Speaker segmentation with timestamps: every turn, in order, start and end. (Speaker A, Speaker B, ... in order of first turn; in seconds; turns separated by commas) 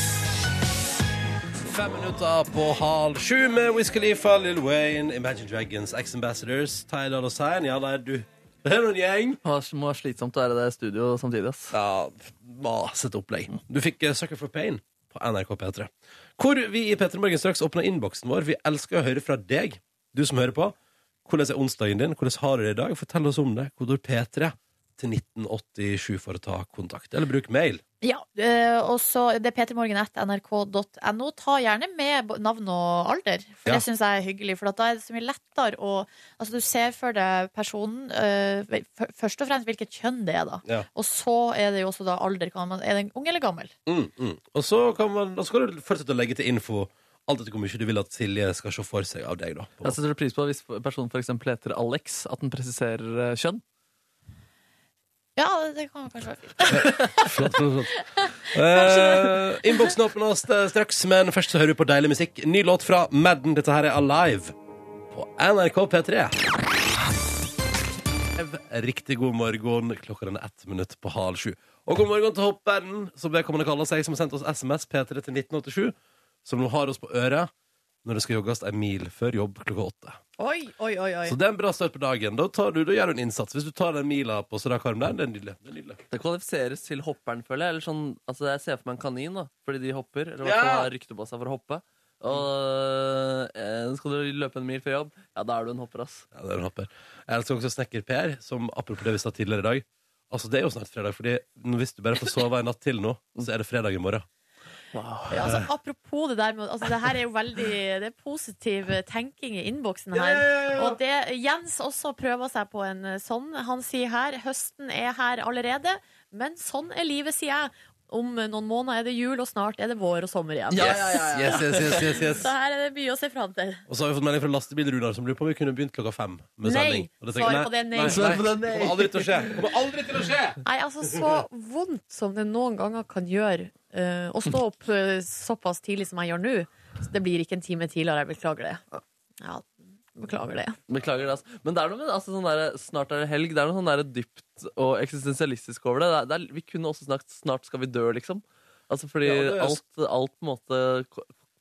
Speaker A: 1.6-9.4, Speaker B: 9.4-11.7, Speaker A: 11.7-27.8, Speaker C: 28.0-43.7, Speaker A: 43.9-50.0, Speaker B: 49.8-53.6, Speaker C: 55.4-57.3, Speaker A: 56.7-64.5, Speaker C: 58.1-59.9, Speaker A: 65.1-66.4, Speaker A: 68.4-77.5, Speaker A: 78.0-80.2, Speaker C: 80.4-81.4, Speaker A: 81.2-86.0, Speaker B: 86.1-96.2, Speaker A: 90.4-90.9, Speaker A: 96.3-104.3, Speaker B: 104.9-105.3, Speaker C: 105.3-123.8, Speaker A: 105.4-105.7, Speaker A: 110.1-111.0, Speaker B: 120.7-122.0, Speaker A: 120.8-122.5, Speaker A: 123.9-130.6, Speaker C: 126.6-128.4, Speaker B: 128.0-130.3, Speaker C: 130.7-140.8, Speaker B: 140.9-151.3, Speaker A: 149.2-149.8